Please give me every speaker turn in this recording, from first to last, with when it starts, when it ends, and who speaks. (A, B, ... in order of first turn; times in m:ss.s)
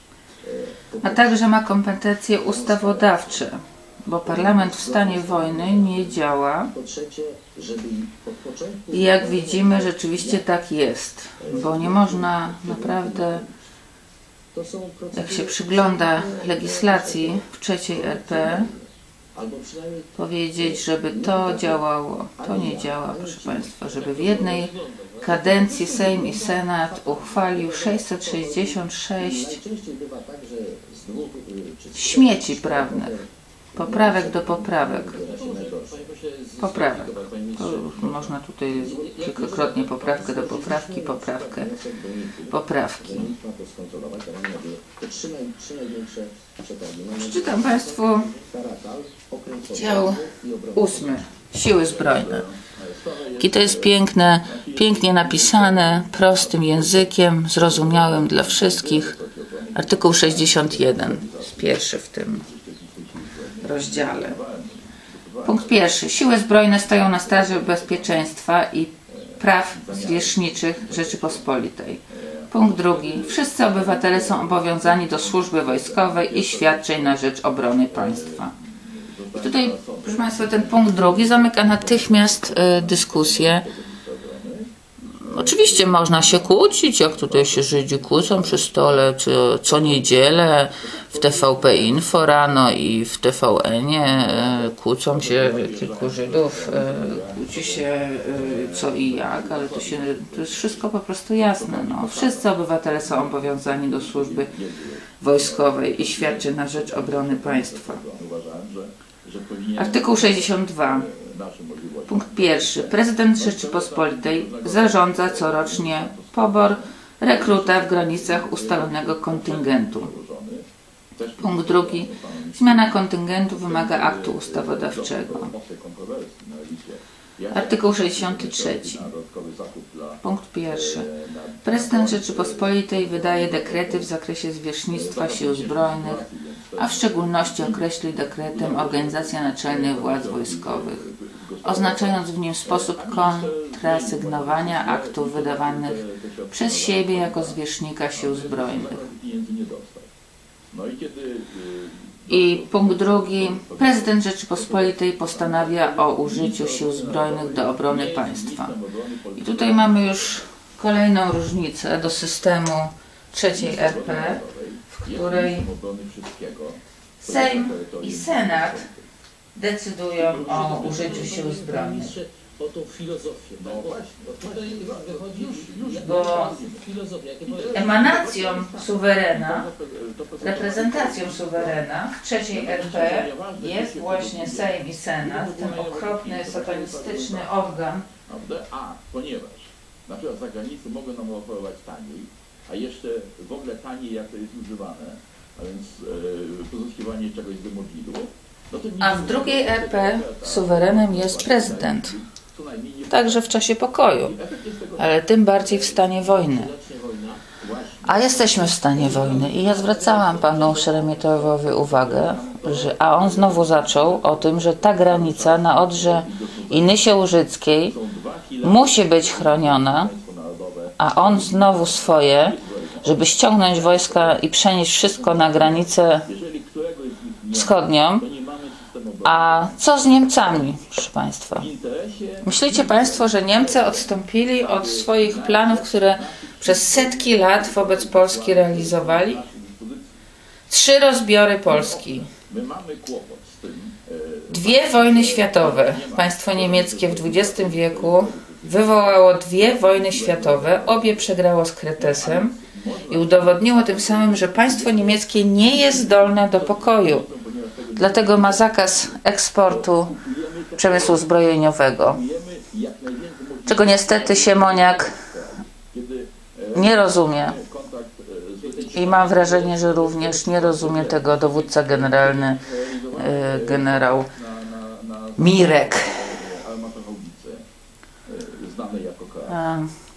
0:00.4-0:01.4 A
0:01.0-0:06.7 B
0:02.4-0:03.4 A
0:04.2-0:10.4 A
0:08.9-0:13.4 B
0:11.4-0:13.6 A
0:14.5-0:21.8 A
0:15.1-0:18.7 B
0:20.2-0:29.6 B
0:22.4-0:24.0 A
0:23.8-0:25.5 C
0:25.3-0:36.0 A
0:31.9-0:33.1 B
0:33.7-0:35.2 B
0:35.2-0:40.4 C
0:36.6-0:41.7 B
0:38.8-0:39.1 A
0:40.1-0:51.2 A
0:42.5-0:43.3 B
0:47.1-0:48.3 B
0:49.7-0:50.2 B
0:50.7-0:52.4 B
0:51.8-1:05.8 D
0:53.4-0:59.1 B
0:59.7-1:02.4 B
1:03.6-1:04.4 B
1:05.4-1:18.5 B
1:06.9-1:08.3 D
1:09.1-1:11.5 D
1:12.1-1:17.2 D
1:17.9-1:24.7 D
1:19.3-1:23.6 B
1:25.2-1:44.5 B
1:25.2-1:29.1 D
1:29.6-1:32.6 D
1:34.0-2:14.1 D
1:45.2-1:48.0 B
1:49.8-1:51.1 B
1:52.1-2:00.1 B
2:01.4-2:05.5 B
2:07.5-2:09.1 B
2:10.2-2:11.1 B
2:11.6-2:16.2 B
2:14.9-2:27.6 D
2:16.8-2:21.0 B
2:21.6-2:26.0 B
2:26.5-2:29.0 B
2:28.1-2:30.1 D
2:30.7-2:40.4 D
2:32.3-2:38.7 B
2:39.4-2:44.4 B
2:43.5-2:49.1 D
2:44.9-2:45.7 B
2:47.2-2:48.9 B
2:49.5-2:52.2 B
2:50.2-2:51.4 D
2:50.3-2:58.0 C
2:53.6-2:56.9 D
2:56.0-2:56.6 B
2:57.4-3:01.8 D
2:57.7-2:59.7 B
3:00.4-3:08.1 B
3:02.5-3:07.6 D
3:08.2-3:23.5 D
3:19.0-3:22.1 B
3:23.1-3:24.3 B
3:24.2-3:25.2 D
3:25.0-3:26.7 B
3:25.6-3:27.4 C
3:27.6-3:37.2 D
3:28.0-3:38.0 B
3:37.8-3:44.4 D
3:38.6-3:40.1 B
3:41.0-3:46.3 B
3:45.0-3:50.7 D
3:47.5-3:48.2 B
3:49.2-3:51.7 B
3:51.5-4:00.2 D
3:52.4-3:59.4 B
4:00.7-4:02.3 B
4:01.6-4:11.4 D
4:04.5-4:12.5 B
4:12.0-4:21.3 D
4:13.1-4:17.2 B
4:18.0-4:20.1 B
4:20.8-4:22.2 B
4:22.0-4:37.6 D
4:23.6-4:25.2 B
4:26.7-4:27.6 B
4:28.6-4:29.9 C
4:28.9-4:32.6 B
4:33.1-4:34.3 B
4:35.4-4:36.2 B
4:38.3-4:39.6 D
4:39.5-4:39.9 B